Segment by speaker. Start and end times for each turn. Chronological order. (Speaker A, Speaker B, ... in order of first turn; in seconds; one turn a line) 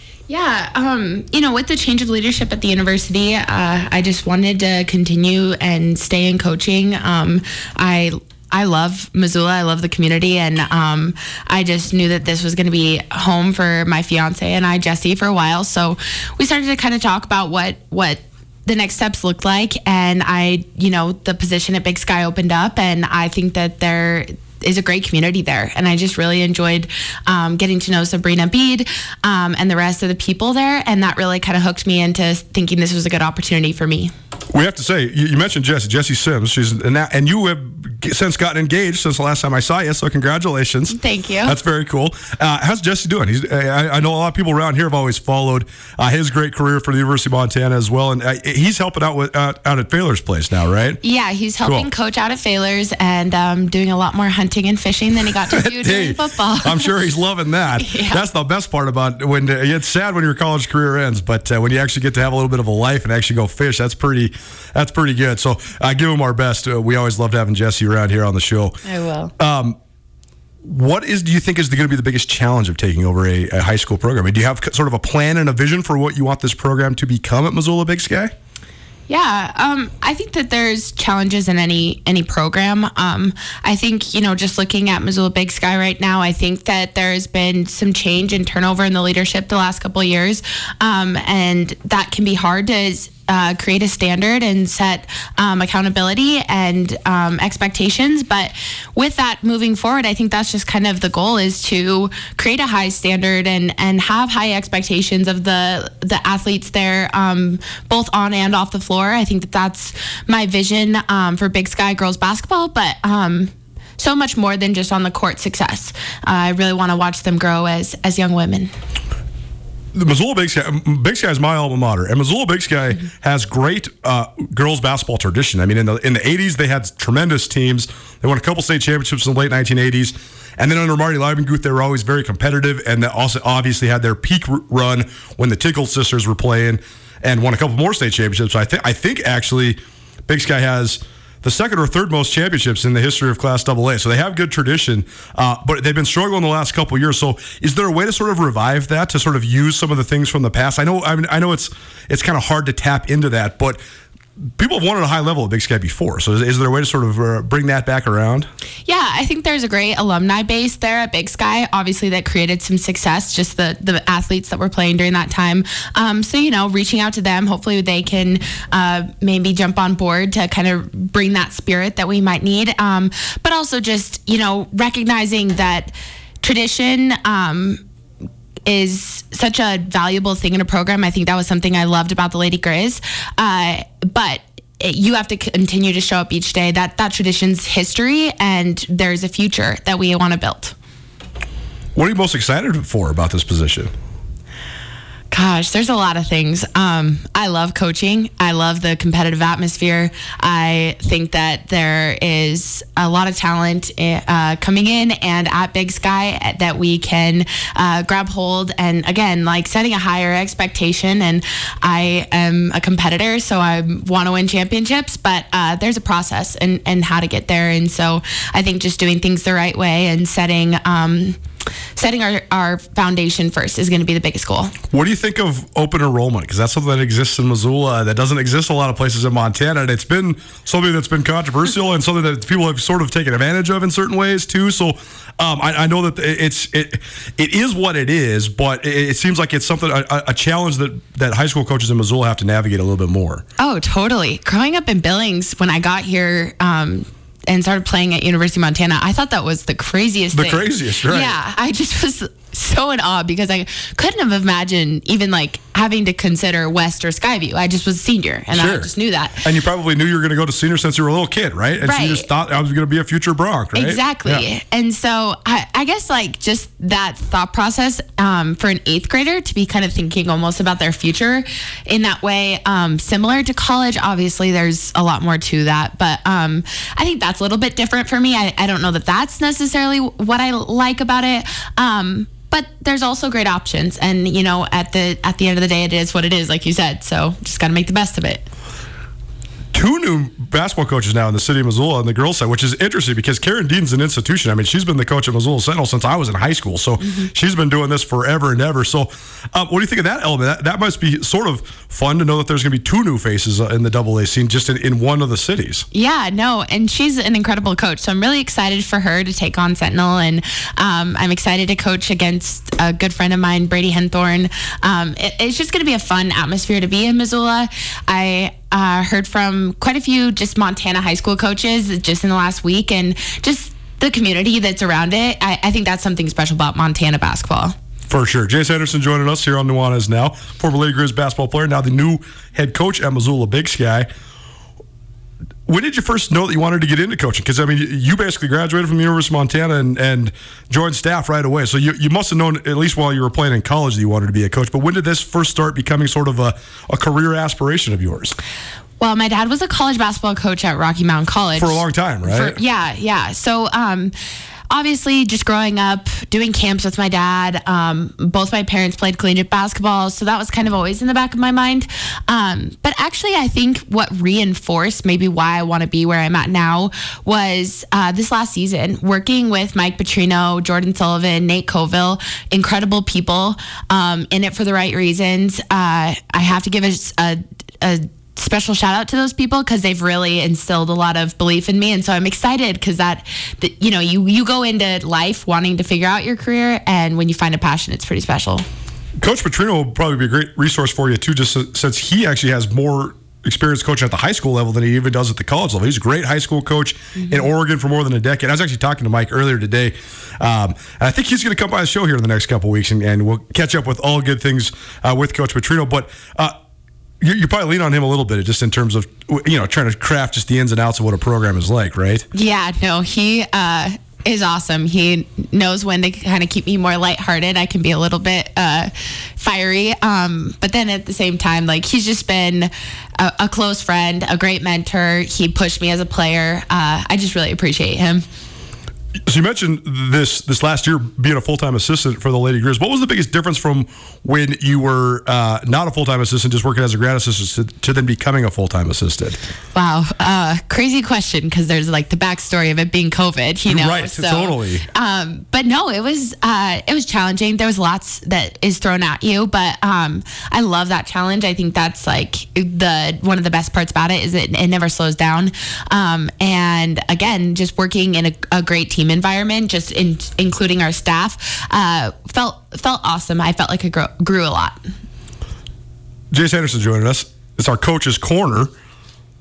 Speaker A: 0.3-34.1
Speaker B: 34.5-51.0
Speaker A: 40.9-41.6
Speaker A: 51.0-57.0
Speaker B: 51.6-51.9
Speaker B: 55.5-68.8
Speaker A: 57.7-58.2
Speaker A: 68.8-69.3
Speaker B: 69.4-69.8
Speaker B: 70.6-78.3
Speaker A: 79.1-118.7
Speaker B: 119.9-153.8
Speaker B: 154.6-158.5
Speaker A: 158.8-177.8
Speaker A: 178.7-190.8
Speaker B: 191.9-193.9
Speaker A: 195.3-221.4
Speaker A: 221.9-224.7
Speaker B: 224.9-243.4
Speaker A: 243.6-259.5
Speaker B: 250.3-251.3
Speaker B: 258.5-258.9
Speaker B: 259.4-264.4
Speaker A: 261.8-262.3
Speaker A: 263.8-288.5
Speaker B: 289.7-305.9
Speaker A: 305.9-327.8
Speaker B: 328.1-334.1
Speaker B: 335.6-348.4
Speaker A: 349.0-354.1
Speaker B: 351.6-352.6
Speaker A: 354.7-388.6
Speaker B: 389.2-406.6
Speaker B: 407.2-412.2
Speaker A: 412.3-428.2
Speaker B: 429.3-439.4
Speaker A: 439.7-464.8
Speaker B: 443.7-444.9
Speaker B: 466.3-468.7